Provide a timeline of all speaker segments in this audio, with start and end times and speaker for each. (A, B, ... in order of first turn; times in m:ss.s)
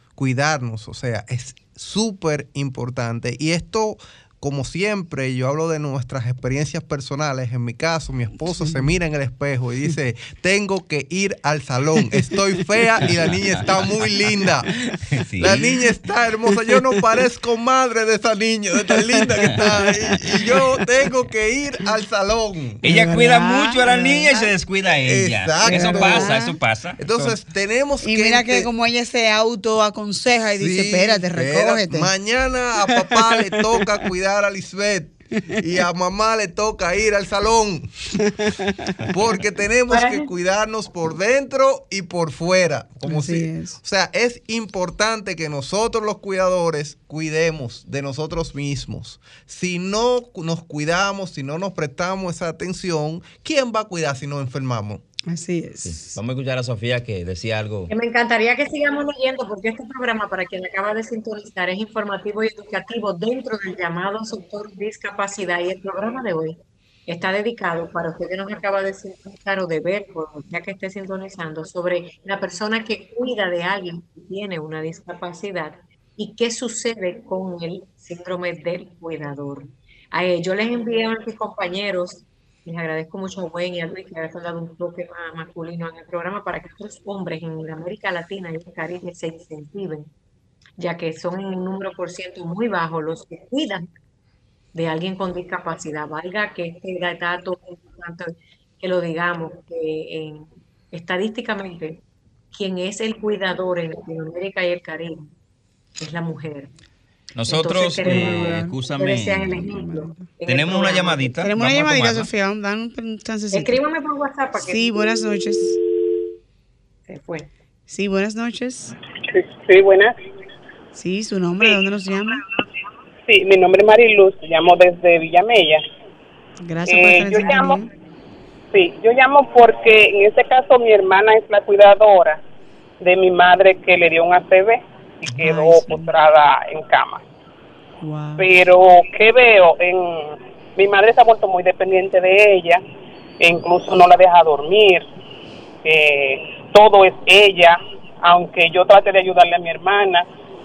0:00.2-0:22.8 A
0:13.2-0:14.1 B
0:15.0-0:15.7 B
0:22.8-0:27.4 B
0:22.8-0:24.5 C
0:25.0-0:26.4 A
0:25.6-0:26.6 C
0:27.0-0:28.7 A
0:28.0-0:32.1 C
0:30.6-0:38.2 A
0:33.1-0:33.5 C
0:38.4-0:39.0 C
0:39.1-0:55.0 A
0:39.9-0:40.3 D
0:43.1-0:43.8 C
0:55.3-0:56.2 C
0:55.8-0:57.9 B
0:57.9-1:30.1 D
1:30.8-1:33.9 D
1:34.7-1:42.0 D
1:42.5-1:45.3 D
1:46.0-1:46.7 D
1:47.4-1:49.6 B
1:47.5-1:51.3 D
1:48.0-1:48.7 C
1:49.6-1:50.3 C
1:50.5-1:52.3 B
1:51.4-1:53.8 C
1:53.5-1:55.1 D
1:54.6-1:55.8 C
1:57.1-1:57.5 D
1:57.9-1:59.0 C
1:59.3-2:00.2 E
2:00.9-2:02.4 C
2:02.3-2:02.7 D
2:03.3-2:05.8 E
2:06.6-2:07.9 C
2:06.9-2:07.8 E
2:08.7-2:12.4 E
2:13.0-2:17.2 E
2:15.4-2:16.1 C
2:18.0-2:18.5 C
2:18.4-2:22.8 E
2:23.4-2:25.1 E
2:25.8-2:30.3 E